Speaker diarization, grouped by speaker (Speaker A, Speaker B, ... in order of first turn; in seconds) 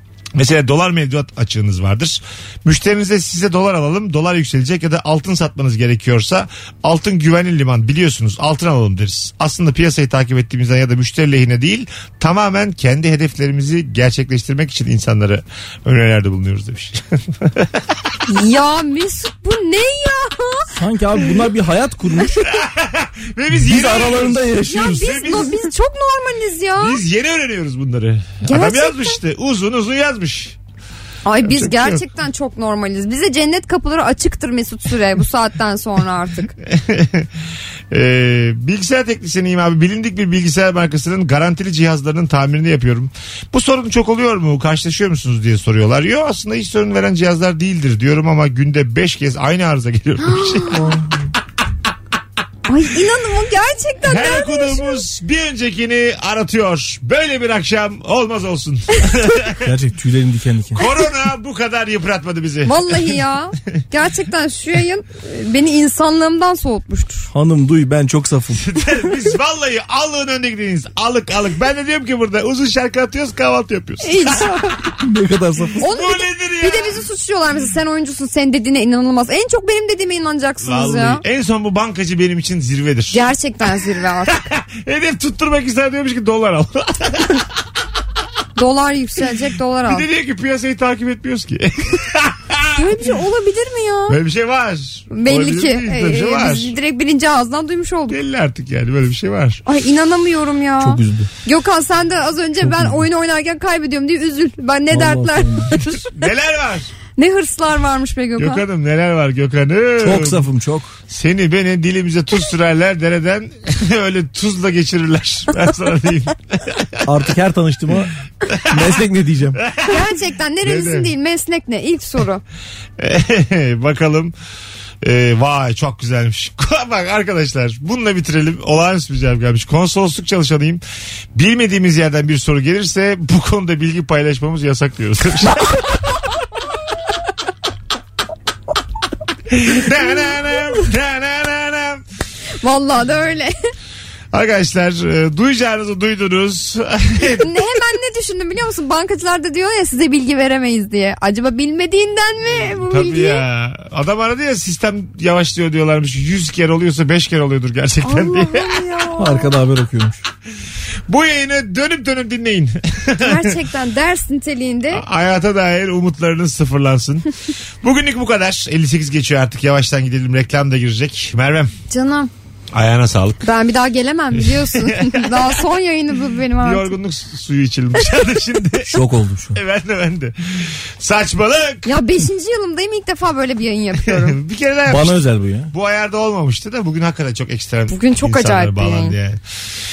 Speaker A: 0.4-17.8, 22.4-25.6, 26.8-30.6, 31.4-32.0, 36.6-37.3, 37.9-50.8, 54.1-59.6, 60.8-63.2, 68.6-74.5, 75.8-77.0, 80.6-83.3, 84.3-87.5, 89.9-93.0, 94.1-96.8, 98.1-99.6, 105.9-106.9, 108.4-110.5, 111.1-117.1, 118.6-118.8, 119.7-120.0, 120.6-121.1, 123.0-124.3, 125.0-130.8, 131.3-136.0, 139.5-142.0, 144.3-147.5, 152.7-158.9, 161.1-163.6, 164.9-167.3, 167.8-171.7, 172.7-173.4, 174.4-175.6, 176.6-178.9, 179.5-182.0, 184.0-185.2, 185.7-189.4
Speaker B: 18.3-20.7, 24.6-27.0, 28.4-29.2, 31.3-36.5, 50.3-50.7, 52.7-55.0, 62.6-67.3, 74.0-74.8, 75.8-81.2, 83.1-84.3, 88.6-90.1, 92.7-94.2, 95.1-98.2, 99.7-106.0, 107.2-108.6, 119.9-122.4, 142.6-143.5, 147.4-153.4, 158.0-159.5, 163.2-165.0, 171.9-172.3, 173.4-176.9, 181.9-184.4, 187.9-189.2
Speaker C: 20.7-22.5, 23.6-25.0, 50.7-51.3, 59.6-60.8, 67.3-68.6, 75.0-75.8, 100.8-101.3, 102.6-103.0, 104.9-105.7, 110.0-110.9, 117.1-118.1, 118.7-119.6, 159.2-160.2, 178.9-179.6, 184.9-185.7